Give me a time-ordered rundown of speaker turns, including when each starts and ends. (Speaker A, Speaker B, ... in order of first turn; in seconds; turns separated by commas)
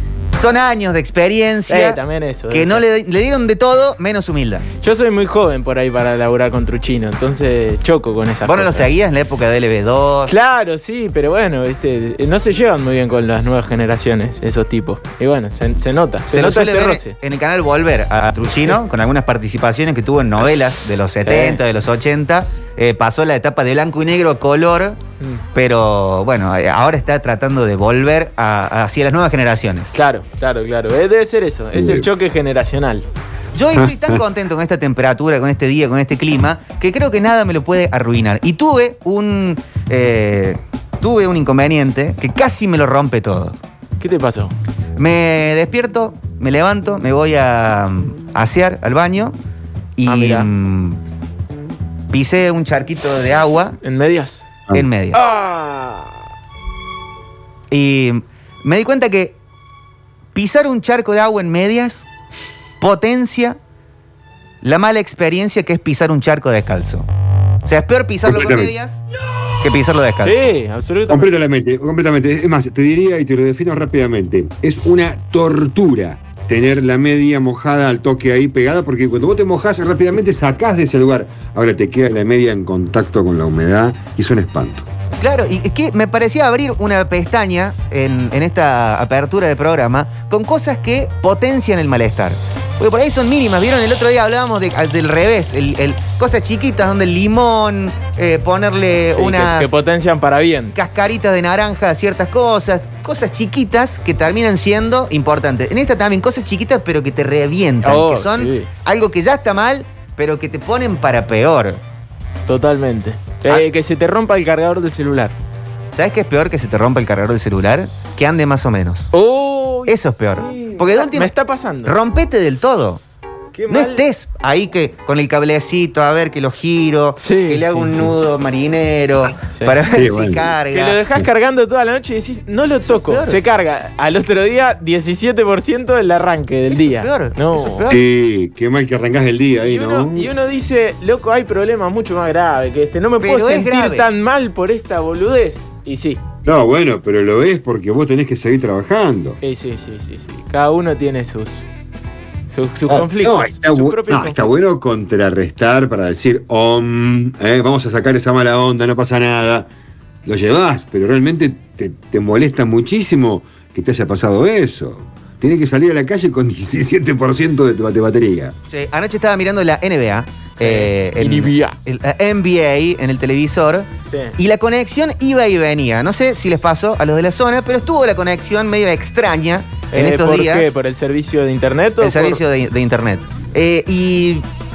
Speaker A: 0.3-4.6, Speaker B: 1.7-2.8, Speaker B: 4.8-8.9, Speaker A: 8.4-10.3, Speaker B: 10.3-17.1, Speaker A: 16.3-25.0, Speaker B: 18.4-18.8, Speaker B: 21.2-21.6, Speaker A: 25.5-29.9, Speaker B: 29.9-33.0, Speaker C: 31.7-32.1, Speaker A: 33.5-43.6, Speaker C: 33.7-34.2, Speaker B: 44.0-44.5, Speaker A: 45.0-49.4, Speaker A: 50.0-51.0, Speaker B: 50.1-50.5, Speaker A: 52.1-53.8, Speaker B: 53.8-54.5, Speaker A: 54.7-55.2, Speaker B: 55.1-56.2, Speaker A: 57.7-59.4, Speaker A: 60.3-62.0, Speaker A: 62.8-63.6, Speaker A: 64.6-67.1, Speaker A: 67.6-69.0, Speaker C: 68.2-68.7, Speaker A: 69.6-70.5, Speaker B: 70.2-71.3, Speaker C: 71.1-84.8, Speaker A: 85.2-99.7, Speaker B: 99.1-100.7, Speaker A: 100.7-111.8, Speaker B: 107.8-108.7, Speaker B: 112.5-115.3, Speaker A: 115.9-119.1, Speaker B: 119.1-121.9, Speaker A: 119.9-121.3, Speaker A: 121.8-123.0, Speaker B: 123.5-124.0, Speaker A: 123.7-131.0, Speaker B: 127.2-128.1, Speaker C: 129.9-130.6, Speaker B: 130.7-137.9, Speaker A: 132.8-133.4, Speaker A: 136.7-138.0, Speaker C: 137.9-140.3, Speaker B: 139.6-146.2, Speaker A: 143.2-144.1, Speaker C: 146.4-149.4, Speaker B: 149.4-151.6, Speaker B: 152.5-154.4, Speaker C: 152.9-159.7, Speaker C: 160.2-168.5, Speaker A: 168.7-180.7, Speaker B: 170.6-171.8, Speaker B: 174.1-174.3, Speaker B: 179.9-182.4, Speaker A: 182.0-184.4